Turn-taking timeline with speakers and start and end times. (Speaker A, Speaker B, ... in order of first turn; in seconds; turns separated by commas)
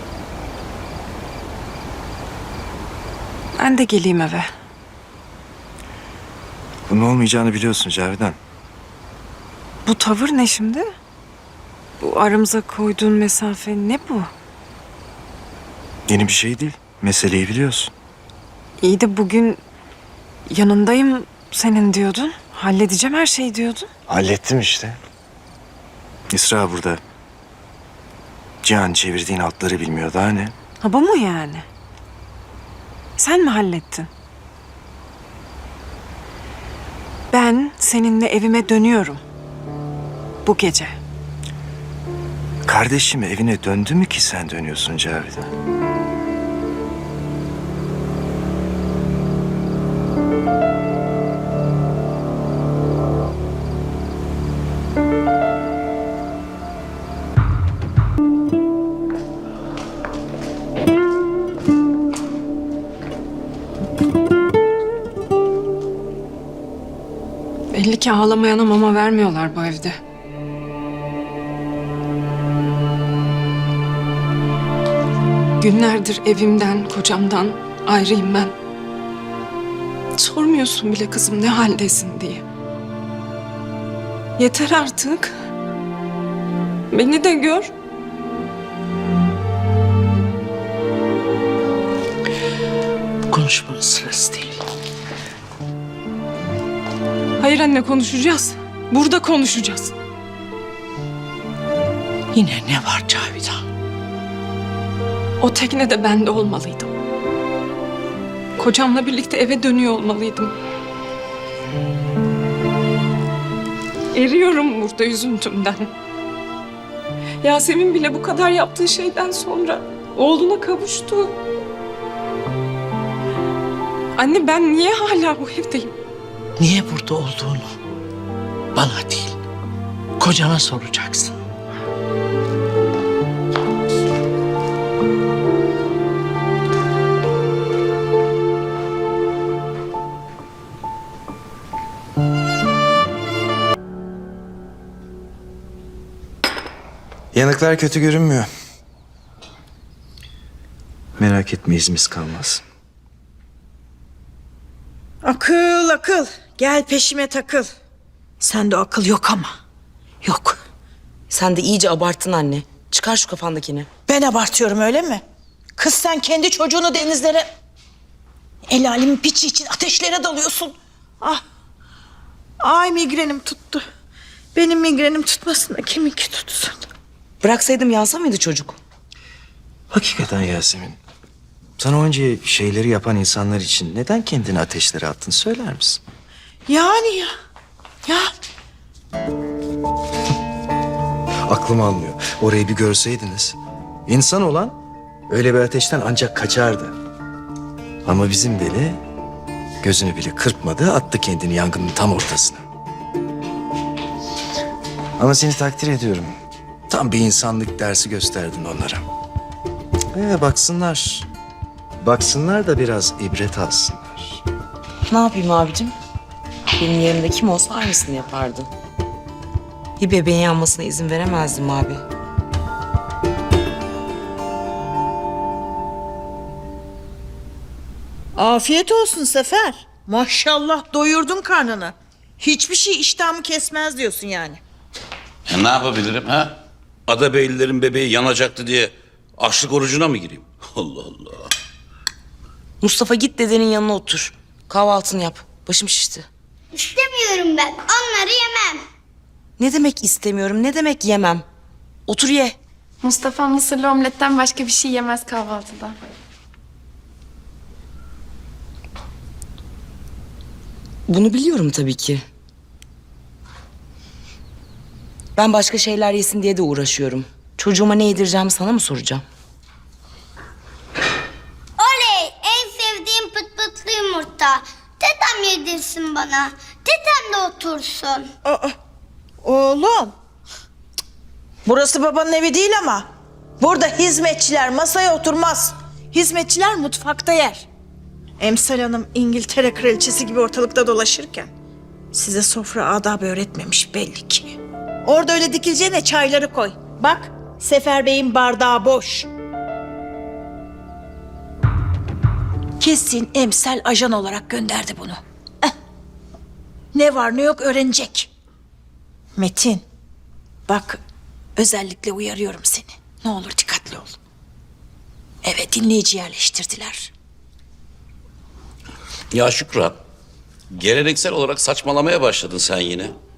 Speaker A: 3.6-4.5, Speaker B: 6.9-8.4, Speaker A: 9.9-10.9, Speaker A: 12.0-14.3, Speaker B: 16.1-17.9, Speaker A: 18.8-19.6, Speaker A: 20.5-23.9, Speaker B: 24.1-25.0, Speaker B: 26.3-27.0, Speaker B: 28.6-30.5, Speaker A: 30.8-31.7, Speaker A: 33.2-34.1, Speaker A: 37.3-39.2, Speaker A: 40.5-41.0, Speaker B: 42.7-45.5, Speaker A: 67.7-70.0, Speaker A: 75.6-78.5, Speaker A: 80.2-82.4, Speaker A: 84.4-85.3, Speaker A: 86.9-87.7, Speaker C: 93.3-94.5, Speaker A: 97.4-99.9, Speaker C: 102.4-103.6, Speaker A: 105.4-106.9, Speaker A: 108.6-110.5, Speaker A: 114.1-115.9, Speaker A: 117.4-121.3, Speaker A: 124.2-125.9, Speaker C: 126.6-127.6, Speaker C: 128.8-129.2, Speaker C: 130.2-131.3, Speaker B: 147.3-148.5, Speaker B: 151.2-152.6, Speaker D: 155.2-157.7, Speaker D: 158.4-159.5, Speaker D: 160.2-160.6, Speaker E: 161.3-163.9, Speaker D: 164.1-165.2, Speaker D: 165.8-167.4, Speaker D: 168.7-171.4, Speaker D: 172.6-173.8, Speaker D: 174.5-176.8, Speaker E: 177.4-178.8, Speaker B: 179.9-181.0, Speaker B: 181.8-186.0, Speaker D: 186.7-187.3, Speaker D: 188.1-188.3, Speaker B: 191.5-194.8, Speaker B: 195.3-196.9, Speaker B: 198.1-199.0, Speaker B: 199.8-202.6, Speaker B: 205.2-206.3, Speaker B: 206.9-209.0, Speaker B: 210.1-211.3, Speaker B: 212.0-214.4, Speaker E: 215.1-215.9, Speaker E: 216.8-218.7, Speaker E: 220.0-222.0, Speaker D: 228.4-234.6, Speaker F: 235.5-236.6, Speaker F: 237.1-241.5, Speaker E: 242.8-246.3, Speaker G: 246.7-248.8, Speaker E: 249.6-251.4, Speaker E: 252.1-252.6, Speaker H: 253.0-256.0, Speaker E: 261.1-262.2, Speaker E: 265.4-269.2, Speaker G: 271.8-278.3, Speaker D: 278.4-278.8, Speaker D: 279.4-280.1, Speaker D: 281.6-283.1, Speaker D: 283.6-287.7, Speaker D: 288.4-291.5, Speaker D: 292.1-299.3, Speaker D: 302.8-305.7, Speaker D: 306.9-308.3, Speaker D: 309.4-309.8, Speaker D: 310.7-311.0, Speaker D: 311.6-314.2, Speaker D: 315.4-317.1, Speaker F: 319.3-320.0, Speaker F: 320.7-323.1